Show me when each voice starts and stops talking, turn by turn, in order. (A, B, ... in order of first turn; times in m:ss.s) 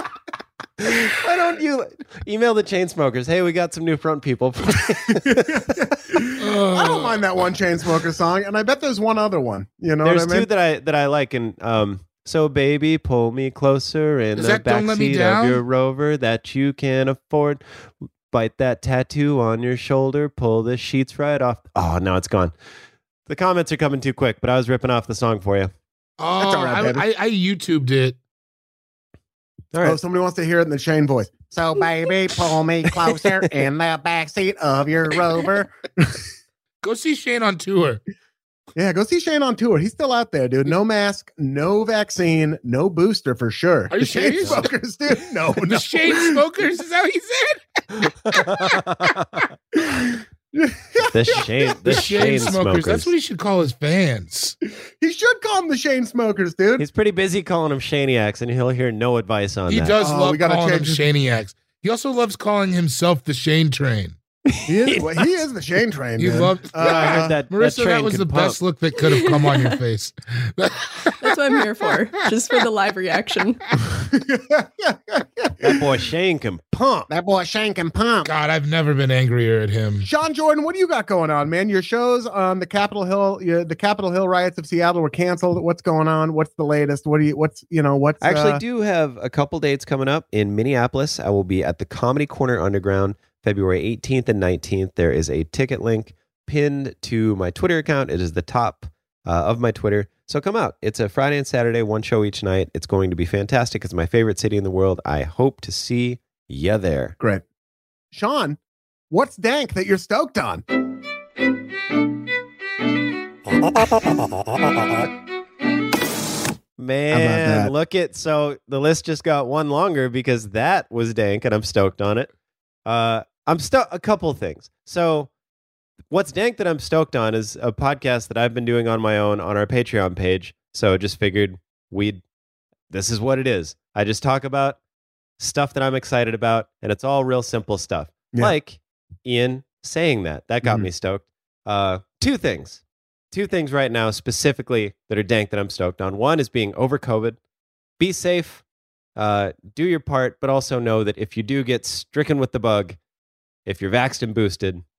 0:00.8-0:05.8 A
0:05.2-0:10.5 B
0:06.4-0:07.2 C
0:10.0-0:17.6 A
0:14.4-0:15.6 C
0:18.3-0:22.5 A
0:23.3-0:25.7 A
0:26.2-0:28.2 C
0:26.4-0:27.0 B
0:29.7-0:30.0 A
0:29.8-0:36.2 B
0:36.8-0:38.0 C
0:38.7-0:46.4 B
0:43.9-0:44.6 C
0:45.6-0:48.8 C
0:48.3-0:49.4 A
0:49.7-0:51.8 B
0:51.1-0:53.1 A
0:51.8-0:54.6 C
0:54.8-0:56.8 B
0:56.8-0:59.9 A
0:59.7-1:04.2 C
1:00.0-1:01.0 B
1:04.5-1:05.2 A
1:04.6-1:07.3 B
1:06.2-1:11.3 C
1:06.8-1:08.6 A
1:09.1-1:09.6 D
1:11.2-1:13.6 D
1:13.9-1:15.8 B
1:15.6-1:17.1 A
1:17.1-1:18.3 B
1:18.2-1:20.1 C
1:20.0-1:28.6 B
1:28.2-1:47.1 A
1:48.1-1:48.6 B
1:49.1-1:50.6 B
1:56.8-2:02.3 A
1:57.1-1:57.7 B
2:02.8-2:05.3 A
2:06.1-2:12.2 A
2:12.9-2:14.8 A
2:15.4-2:27.4 A
2:20.6-2:20.9 B
2:28.0-2:28.6 A
2:29.2-2:33.0 A
2:33.6-2:34.8 A